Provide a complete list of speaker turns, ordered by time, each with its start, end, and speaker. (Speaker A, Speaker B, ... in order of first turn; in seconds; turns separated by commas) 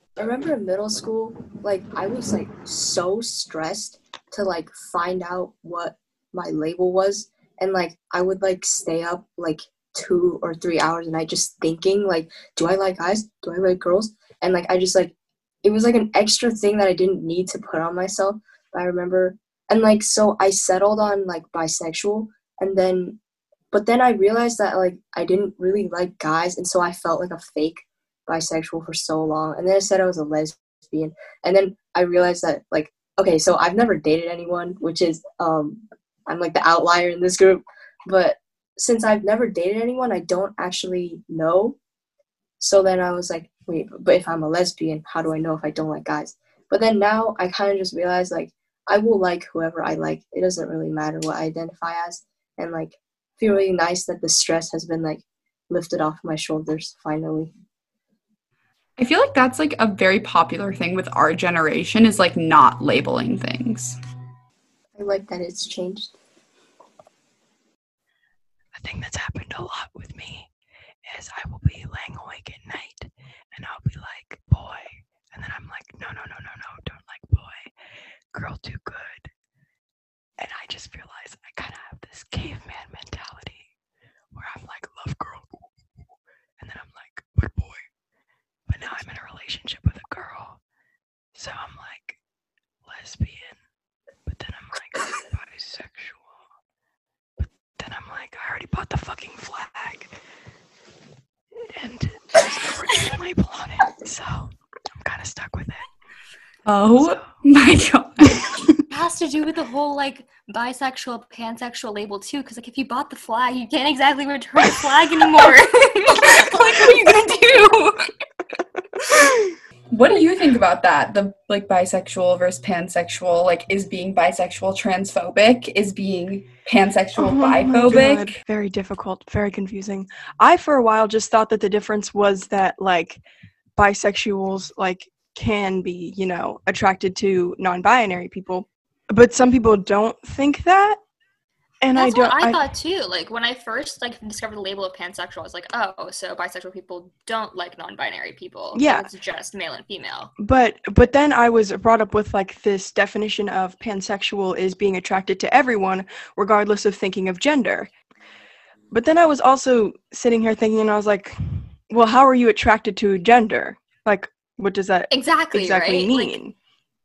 Speaker A: 0.2-15.1, Speaker A: 15.6-23.2, Speaker A: 23.7-41.8, Speaker A: 42.6-57.5, Speaker B: 59.0-64.0, Speaker A: 65.0-66.2, Speaker C: 68.7-70.5, Speaker C: 71.0-77.7, Speaker C: 78.3-79.3, Speaker C: 80.4-83.7, Speaker C: 84.3-85.5, Speaker C: 86.6-87.8, Speaker C: 88.7-90.6, Speaker C: 91.3-92.2, Speaker C: 92.8-93.6, Speaker C: 94.2-96.4, Speaker C: 97.4-100.1, Speaker C: 101.7-105.9, Speaker B: 106.7-108.7, Speaker C: 107.0-107.4, Speaker D: 108.9-117.9, Speaker B: 119.9-128.4, Speaker C: 127.2-133.2, Speaker C: 133.8-141.0, Speaker C: 141.8-142.6, Speaker D: 141.9-150.3, Speaker C: 148.7-149.1, Speaker C: 150.4-157.9, Speaker C: 158.9-166.6, Speaker D: 165.1-166.4